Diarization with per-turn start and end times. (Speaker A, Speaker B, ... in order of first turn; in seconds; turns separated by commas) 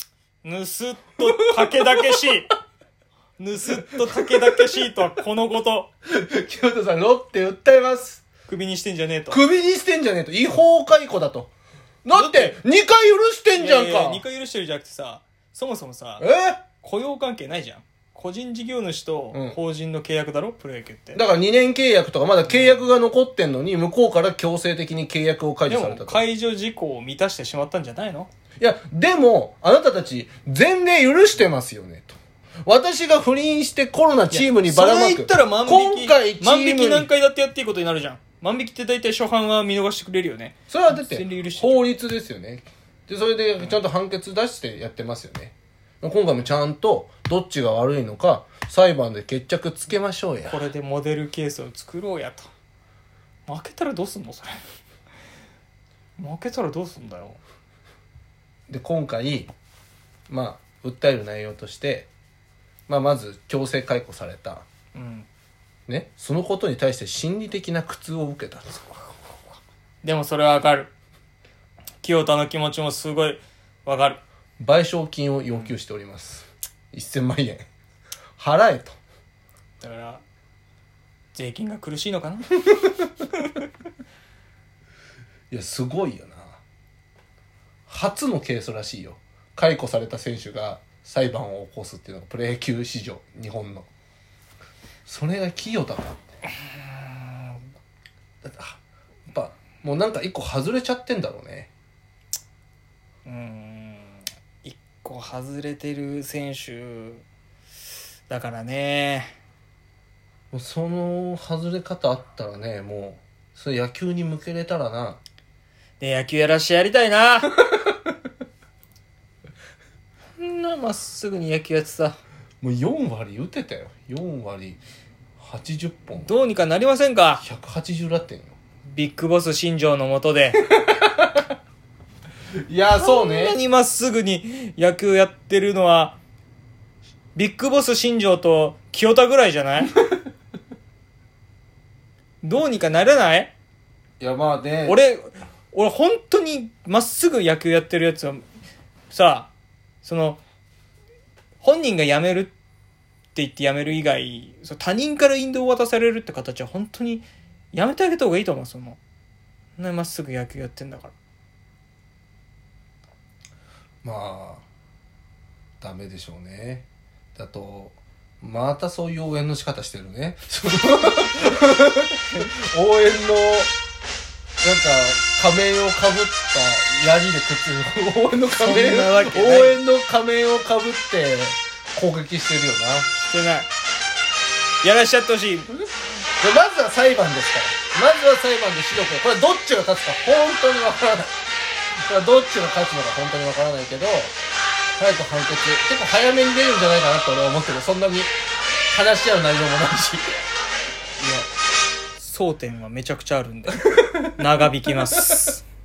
Speaker A: 0.4-2.5, Speaker B: 1.6-2.1, Speaker A: 3.4-5.9, Speaker B: 3.9-4.6, Speaker B: 6.1-8.2, Speaker A: 8.5-9.4, Speaker B: 9.3-11.5, Speaker B: 12.0-14.2, Speaker A: 12.1-12.6, Speaker A: 13.6-21.2, Speaker B: 16.2-16.6, Speaker B: 19.3-19.6, Speaker B: 21.1-26.2, Speaker A: 25.7-28.3, Speaker B: 28.6-37.1, Speaker A: 34.3-41.8, Speaker B: 40.7-50.7, Speaker A: 50.5-52.5, Speaker A: 53.5-54.7, Speaker A: 56.2-57.4, Speaker B: 58.7-59.5, Speaker B: 60.3-62.1, Speaker B: 62.9-64.7, Speaker A: 65.0-65.3, Speaker B: 65.9-69.0, Speaker A: 70.0-70.9, Speaker A: 72.0-74.2, Speaker B: 74.6-77.7, Speaker B: 78.4-79.0, Speaker A: 79.8-80.2, Speaker A: 81.3-82.5, Speaker B: 85.5-86.6, Speaker B: 87.9-93.9, Speaker B: 95.1-96.2, Speaker A: 96.7-97.6, Speaker B: 98.4-101.7, Speaker A: 103.2-107.2, Speaker A: 108.3-109.3, Speaker B: 110.5-115.2, Speaker A: 116.0-117.5, Speaker A: 120.4-122.2, Speaker B: 122.6-124.8, Speaker B: 125.4-126.4, Speaker A: 126.2-127.5, Speaker B: 127.4-128.6, Speaker A: 128.9-130.6, Speaker B: 130.7-131.4, Speaker B: 132.7-133.6, Speaker A: 133.0-136.2, Speaker A: 137.3-139.9, Speaker A: 142.4-143.5, Speaker B: 144.2-145.0, Speaker A: 144.9-148.5, Speaker A: 149.1-149.5, Speaker A: 150.0-150.4, Speaker A: 151.6-152.6, Speaker A: 153.3-159.0, Speaker A: 159.8-161.1, Speaker B: 164.0-164.7, Speaker B: 165.8-173.7, Speaker B: 174.6-183.1, Speaker A: 178.5-179.8, Speaker A: 183.3-183.7, Speaker A: 184.8-185.7, Speaker B: 186.4-191.4, Speaker B: 192.0-194.3, Speaker B: 195.0-198.3, Speaker B: 198.9-200.3, Speaker A: 201.2-201.5, Speaker A: 202.2-205.6